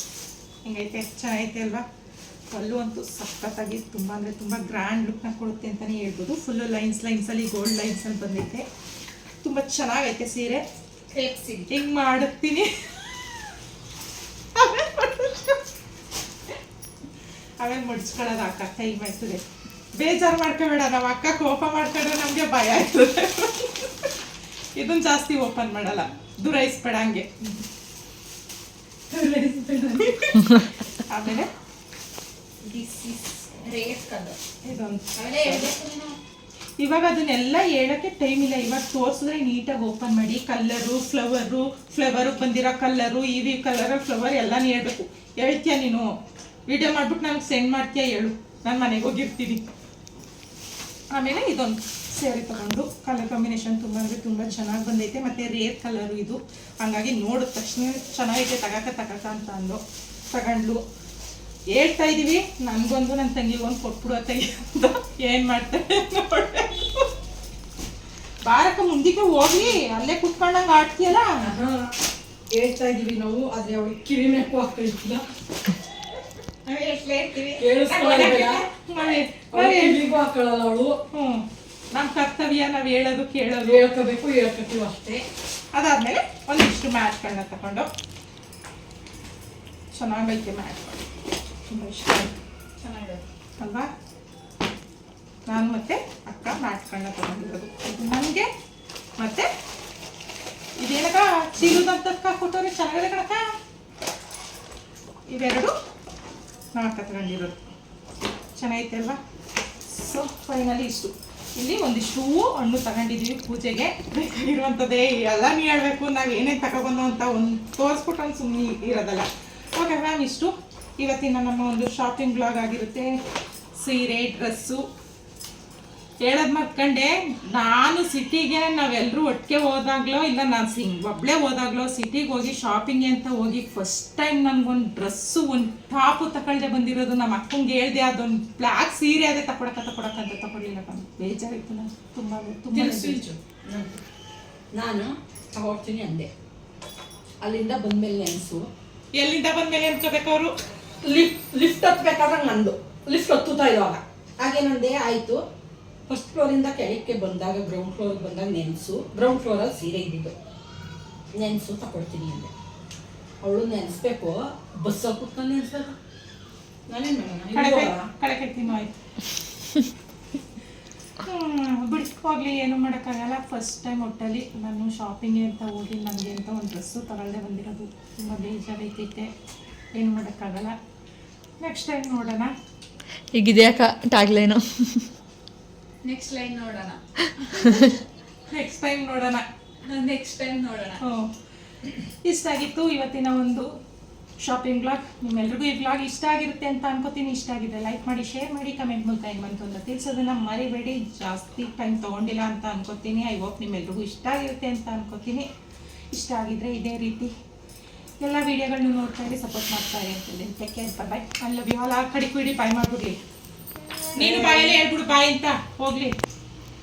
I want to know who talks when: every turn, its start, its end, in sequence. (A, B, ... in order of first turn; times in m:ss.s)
0:00.6-0:01.8 A
0:02.5-0:08.6 A
0:09.4-0:10.6 A
0:11.1-0:11.7 B
0:11.7-0:12.7 A
0:14.6-0:15.4 A
0:17.6-0:19.4 A
0:20.0-0:23.9 A
0:24.8-0:27.5 A
0:30.0-0:30.4 A
0:31.1-0:31.5 A
0:32.7-0:34.4 B
0:32.7-0:33.2 C
0:34.6-0:35.7 A
0:35.2-0:36.2 B
0:36.8-0:46.1 A
0:46.7-0:49.6 A
0:51.1-0:59.8 A
1:00.3-1:00.8 A
1:01.8-1:07.0 A
1:08.4-1:11.3 A
1:11.4-1:11.8 C
1:12.5-1:15.2 C
1:16.7-1:18.4 B
1:17.6-1:18.6 C
1:17.9-1:20.0 A
1:19.5-1:20.9 C
1:21.1-1:21.4 A
1:21.9-1:23.9 A
1:23.6-1:25.2 C
1:25.7-1:27.9 A
1:29.9-1:31.0 A
1:31.7-1:32.3 A
1:32.8-1:33.2 B
1:33.6-1:33.9 A
1:35.5-1:38.5 A
1:39.2-1:39.5 A
1:40.8-1:43.4 A
1:45.3-1:45.7 A
1:46.8-1:47.6 A
1:48.6-1:49.2 A
1:49.9-2:03.1 A
2:03.8-2:04.8 A
2:06.2-2:23.2 A
2:22.7-2:24.0 C
2:24.7-2:26.3 C
2:27.4-2:28.7 C
2:29.1-2:30.5 A
2:31.0-2:35.4 C
2:36.1-2:40.3 C
2:41.3-2:42.5 C
2:43.4-2:46.0 C
2:46.9-2:48.1 C
2:47.5-2:48.9 A
2:51.3-2:59.3 A
3:00.0-3:00.8 A
3:01.6-3:02.5 A
3:03.3-3:05.1 D
3:06.0-3:07.0 B
3:07.5-3:07.9 D
3:08.5-3:09.4 A
3:09.8-3:11.0 B
3:11.0-3:11.3 A
3:12.2-3:13.7 A
3:14.4-3:25.5 A
3:26.1-3:27.3 A
3:28.2-3:33.2 A
3:34.2-3:36.1 A